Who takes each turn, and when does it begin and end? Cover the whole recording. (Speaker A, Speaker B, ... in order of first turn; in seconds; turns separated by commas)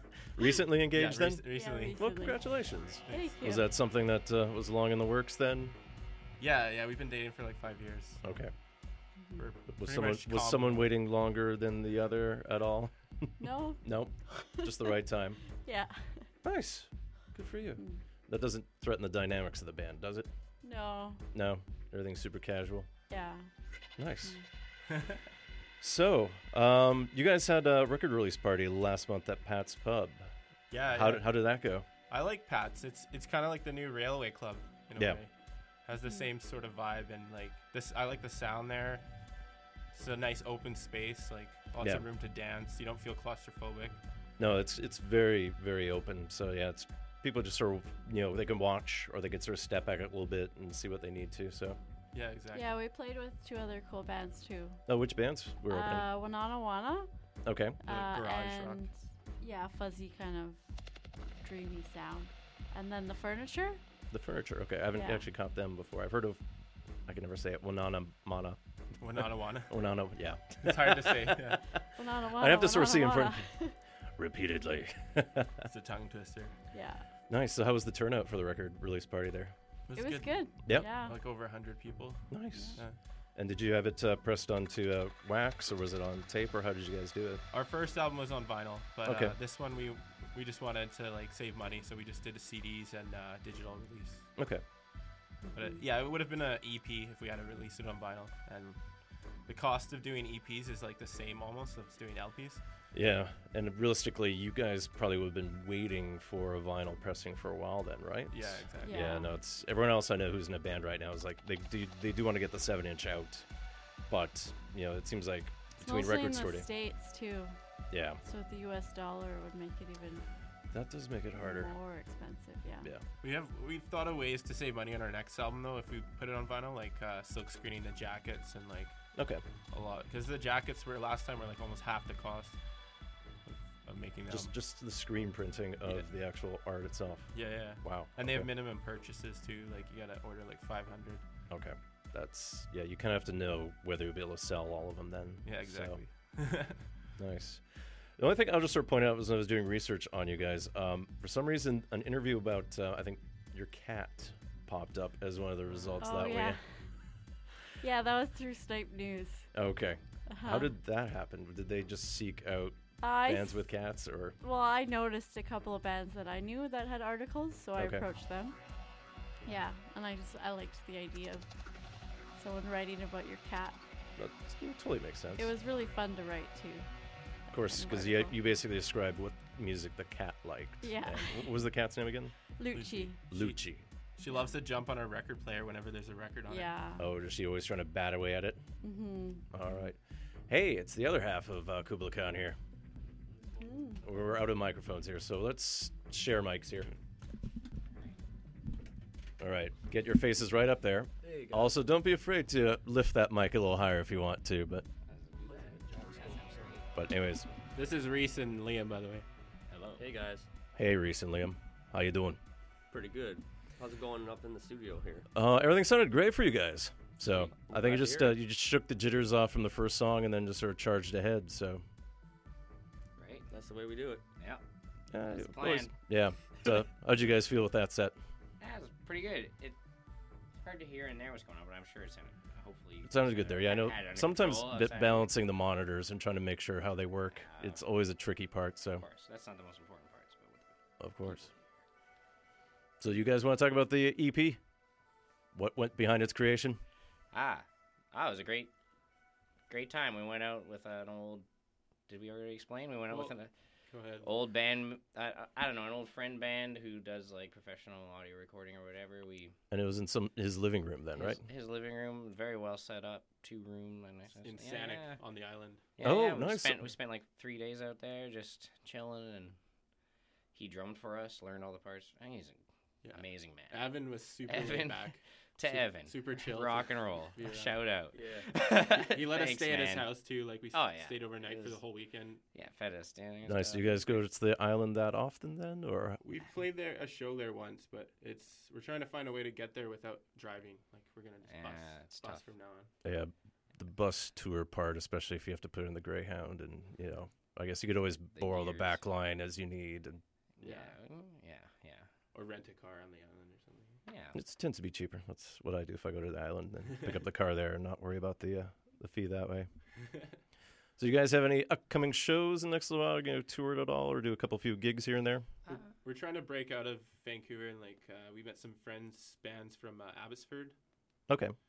Speaker A: 0.3-5.8, Speaker B: 0.9-3.6, Speaker C: 1.5-3.6, Speaker B: 6.4-8.4, Speaker A: 8.2-8.5, Speaker C: 9.2-9.4, Speaker B: 9.4-10.9, Speaker A: 9.7-15.4, Speaker C: 13.4-13.8, Speaker C: 15.6-16.3, Speaker A: 16.4-20.3, Speaker C: 17.8-18.0, Speaker C: 20.6-21.2, Speaker A: 21.3-22.9, Speaker C: 23.1-23.5, Speaker A: 24.0-24.4, Speaker B: 24.9-25.2, Speaker A: 25.8-30.3, Speaker B: 30.7-31.4, Speaker A: 30.9-31.9, Speaker B: 32.1-35.3, Speaker A: 35.0-35.2, Speaker B: 35.8-39.0, Speaker C: 36.0-36.3, Speaker B: 39.9-44.0, Speaker A: 41.8-42.0, Speaker A: 44.4-51.8, Speaker B: 52.1-52.8, Speaker C: 52.5-54.8, Speaker A: 54.9-56.0, Speaker C: 55.7-60.7, Speaker A: 57.4-57.8, Speaker B: 57.9-58.9, Speaker C: 61.4-63.8, Speaker A: 64.1-66.4, Speaker C: 64.9-65.2, Speaker A: 67.0-68.6, Speaker B: 69.0-69.8, Speaker A: 69.2-71.5, Speaker B: 70.6-71.6, Speaker C: 72.0-73.7, Speaker A: 72.4-73.6, Speaker A: 74.2-75.5, Speaker B: 75.7-76.6, Speaker C: 76.7-77.1, Speaker A: 77.3-79.5, Speaker B: 79.9-83.0, Speaker C: 79.9-81.2, Speaker A: 80.6-80.9, Speaker A: 82.3-87.4, Speaker C: 82.5-82.8, Speaker B: 87.5-94.3, Speaker A: 89.0-89.4, Speaker A: 94.3-94.6, Speaker B: 95.5-102.6, Speaker A: 102.9-113.5, Speaker B: 108.3-109.2, Speaker C: 108.8-109.3, Speaker A: 114.1-116.7, Speaker C: 115.8-117.6, Speaker A: 117.9-118.2, Speaker C: 118.2-120.3, Speaker A: 120.7-121.7, Speaker C: 121.4-122.8, Speaker B: 123.2-129.0, Speaker A: 129.1-129.4, Speaker B: 129.7-132.6, Speaker B: 133.8-134.5, Speaker A: 134.3-138.5, Speaker B: 137.3-141.2, Speaker A: 141.5-146.0, Speaker B: 145.4-146.9, Speaker A: 147.2-156.6, Speaker C: 156.0-157.0, Speaker C: 157.8-159.5, Speaker A: 159.5-164.4, Speaker C: 160.3-160.7, Speaker C: 163.0-163.7, Speaker C: 164.4-168.6, Speaker A: 167.8-168.0, Speaker C: 169.4-171.5, Speaker C: 172.3-173.8, Speaker A: 174.2-175.5, Speaker C: 175.4-178.3, Speaker A: 177.5-182.3, Speaker C: 180.8-181.5, Speaker C: 182.6-183.2, Speaker B: 182.7-183.6, Speaker A: 183.3-183.8, Speaker B: 184.2-186.8, Speaker C: 186.5-187.0, Speaker A: 187.0-188.6, Speaker C: 188.8-189.4, Speaker A: 189.5-192.6, Speaker C: 193.6-194.0, Speaker A: 194.0-196.9, Speaker A: 199.4-204.8, Speaker D: 201.2-201.8, Speaker E: 205.1-206.9, Speaker D: 205.4-206.6, Speaker A: 206.9-207.5, Speaker B: 207.7-209.2, Speaker E: 209.7-210.1, Speaker D: 209.9-210.5, Speaker A: 210.8-212.4, Speaker D: 212.9-215.3, Speaker A: 215.3-221.8, Speaker D: 217.5-218.4, Speaker E: 223.2-223.5, Speaker D: 223.5-224.2, Speaker E: 224.4-224.6, Speaker A: 225.1-228.2, Speaker E: 225.3-225.9, Speaker E: 228.6-229.8, Speaker E: 230.6-235.3, Speaker A: 233.0-239.0, Speaker E: 237.3-237.8, Speaker E: 239.0-241.6, Speaker A: 241.0-241.5, Speaker A: 243.0-244.6, Speaker A: 245.5-246.8, Speaker E: 247.3-248.7, Speaker E: 249.7-251.4, Speaker E: 252.1-253.5, Speaker B: 253.1-253.3, Speaker B: 253.9-254.3, Speaker E: 254.2-259.6, Speaker A: 259.7-261.4, Speaker E: 261.1-265.2, Speaker B: 264.4-265.8, Speaker E: 266.0-269.6, Speaker A: 266.0-266.9, Speaker E: 270.5-281.7, Speaker B: 273.0-278.0, Speaker D: 278.1-278.5, Speaker B: 279.1-282.4, Speaker E: 282.5-284.3, Speaker A: 283.4-286.2, Speaker B: 286.2-292.9, Speaker E: 291.4-292.5, Speaker A: 293.0-300.2, Speaker E: 298.3-299.0, Speaker E: 300.6-302.1, Speaker B: 300.6-301.0, Speaker B: 302.3-304.0, Speaker E: 304.0-304.4, Speaker A: 304.3-309.8, Speaker A: 311.0-315.5, Speaker E: 315.6-315.9, Speaker B: 315.7-320.8, Speaker A: 321.3-321.6